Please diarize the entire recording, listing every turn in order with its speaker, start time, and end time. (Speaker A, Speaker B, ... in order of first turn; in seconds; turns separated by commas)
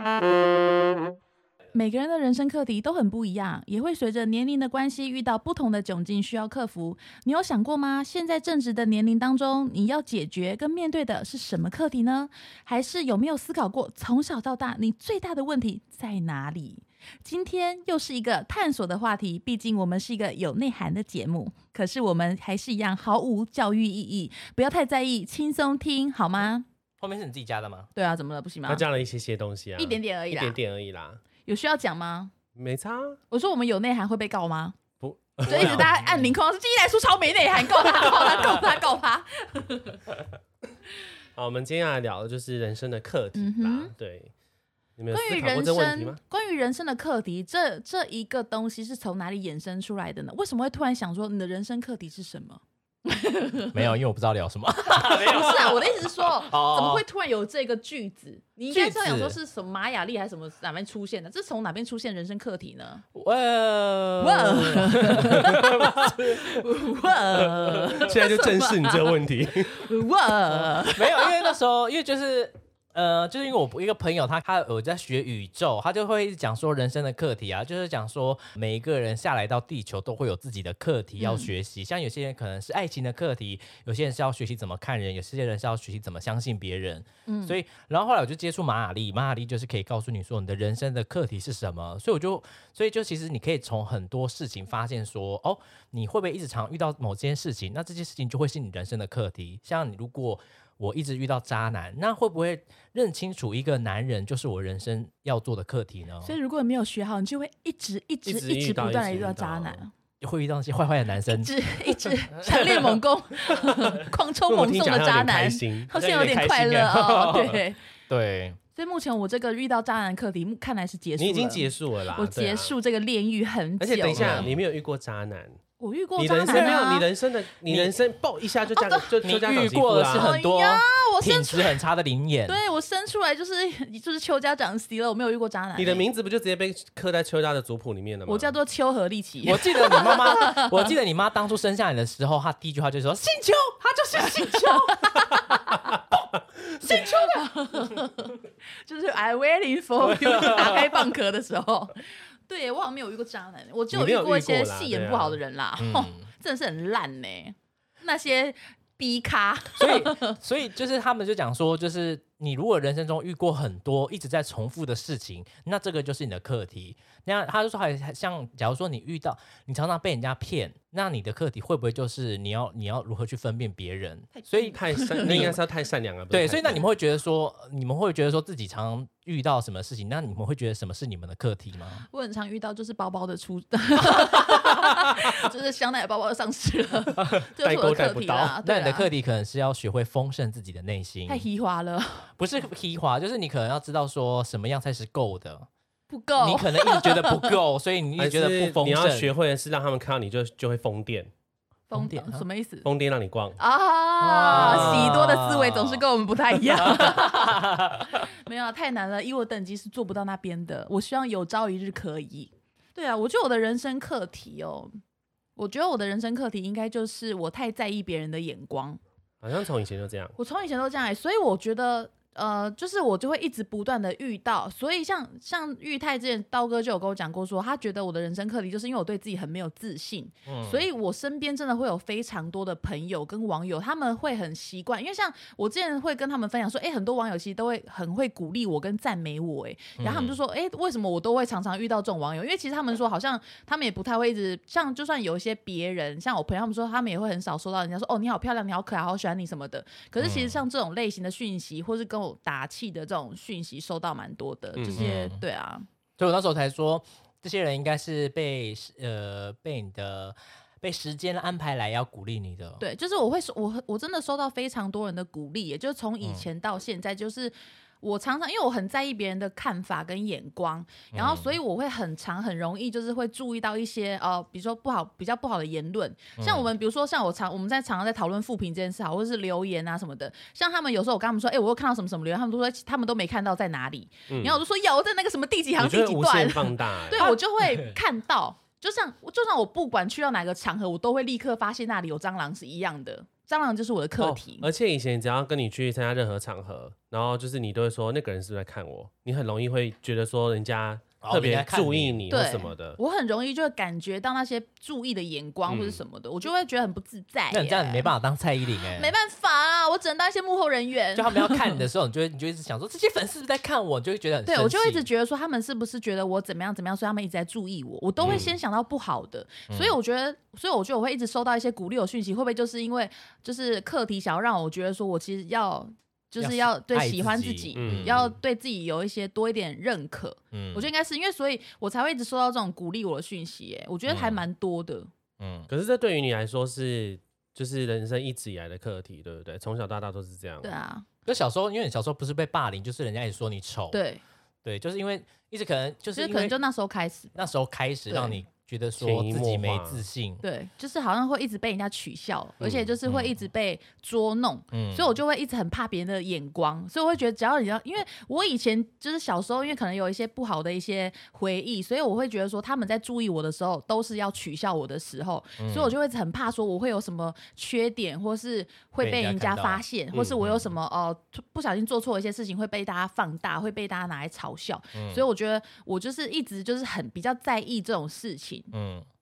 Speaker A: 1.7-26.6, Speaker B: 27.0-27.9, Speaker A: 27.9-28.8, Speaker C: 28.7-31.2, Speaker A: 29.8-30.6, Speaker A: 31.4-32.3, Speaker C: 32.5-33.2, Speaker A: 33.3-34.8, Speaker C: 35.0-36.0, Speaker A: 35.5-40.0, Speaker B: 35.5-36.3, Speaker C: 41.4-44.3, Speaker A: 43.3-43.9, Speaker C: 45.0-46.2, Speaker A: 45.1-53.9, Speaker B: 53.7-57.0, Speaker A: 54.9-63.0, Speaker B: 58.7-59.4, Speaker B: 63.1-66.5, Speaker A: 64.2-69.2, Speaker C: 65.4-66.2, Speaker B: 67.3-68.0, Speaker C: 67.9-69.9, Speaker A: 69.7-71.5, Speaker B: 70.5-106.3, Speaker A: 81.2-81.5, Speaker A: 87.3-87.5, Speaker A: 106.2-109.9, Speaker C: 108.2-109.8, Speaker B: 110.2-111.5, Speaker A: 111.3-117.8, Speaker B: 112.4-112.9, Speaker C: 114.5-116.4, Speaker B: 116.0-118.6, Speaker A: 118.8-124.5, Speaker C: 121.2-122.7, Speaker C: 123.8-125.6, Speaker B: 124.1-124.6, Speaker A: 125.8-127.0, Speaker C: 126.2-130.3, Speaker B: 126.4-126.9, Speaker B: 127.7-127.9, Speaker A: 128.8-129.1, Speaker B: 129.2-132.6, Speaker A: 130.1-131.8, Speaker A: 132.5-136.0, Speaker C: 135.8-138.5, Speaker A: 138.3-140.8, Speaker B: 139.4-145.1, Speaker A: 144.1-145.9, Speaker A: 146.8-160.4, Speaker B: 146.9-147.2, Speaker B: 150.0-151.0, Speaker C: 153.9-155.4, Speaker B: 155.8-156.3, Speaker B: 159.8-175.6, Speaker A: 174.3-175.6, Speaker C: 174.7-176.8, Speaker B: 176.3-182.1, Speaker A: 182.1-189.1, Speaker C: 187.2-188.6, Speaker B: 188.6-191.5, Speaker A: 191.3-192.3, Speaker B: 192.4-195.7, Speaker A: 196.1-197.6, Speaker B: 196.4-199.3, Speaker C: 198.2-201.3, Speaker A: 201.9-202.9, Speaker B: 201.9-202.4, Speaker C: 202.8-203.6, Speaker A: 203.6-214.9, Speaker B: 204.2-206.0, Speaker C: 204.5-205.2, Speaker B: 206.6-208.2, Speaker A: 215.6-219.0, Speaker C: 219.4-220.4, Speaker A: 220.4-255.9, Speaker B: 230.4-230.8, Speaker B: 240.0-240.4, Speaker B: 250.2-250.6, Speaker C: 254.8-255.0, Speaker B: 254.9-255.4, Speaker B: 256.2-262.8, Speaker A: 262.8-294.7, Speaker B: 271.1-271.6, Speaker B: 276.4-276.7, Speaker C: 284.3-284.6, Speaker C: 285.8-287.3, Speaker B: 287.1-288.0, Speaker C: 294.2-303.0, Speaker B: 301.2-302.2, Speaker A: 302.3-308.1, Speaker C: 305.7-306.0, Speaker B: 307.5-309.1, Speaker A: 308.9-311.8, Speaker B: 311.1-315.1, Speaker A: 314.4-335.1, Speaker B: 318.2-318.5, Speaker C: 318.2-318.5, Speaker B: 319.7-320.0, Speaker B: 326.4-328.3, Speaker C: 327.8-328.3, Speaker B: 330.5-330.9, Speaker B: 334.1-334.4, Speaker B: 335.4-335.7, Speaker C: 335.7-340.8, Speaker A: 340.6-341.0, Speaker B: 341.2-344.0, Speaker A: 343.9-344.2, Speaker B: 344.6-346.6, Speaker A: 346.1-347.3, Speaker B: 347.3-350.4, Speaker A: 348.1-348.4, Speaker C: 349.0-350.0, Speaker A: 350.4-378.7, Speaker C: 352.6-352.9, Speaker B: 353.0-353.3, Speaker B: 354.7-355.1, Speaker B: 365.6-365.9, Speaker B: 369.0-369.8, Speaker C: 370.1-370.4, Speaker B: 374.9-375.2, Speaker B: 378.7-379.1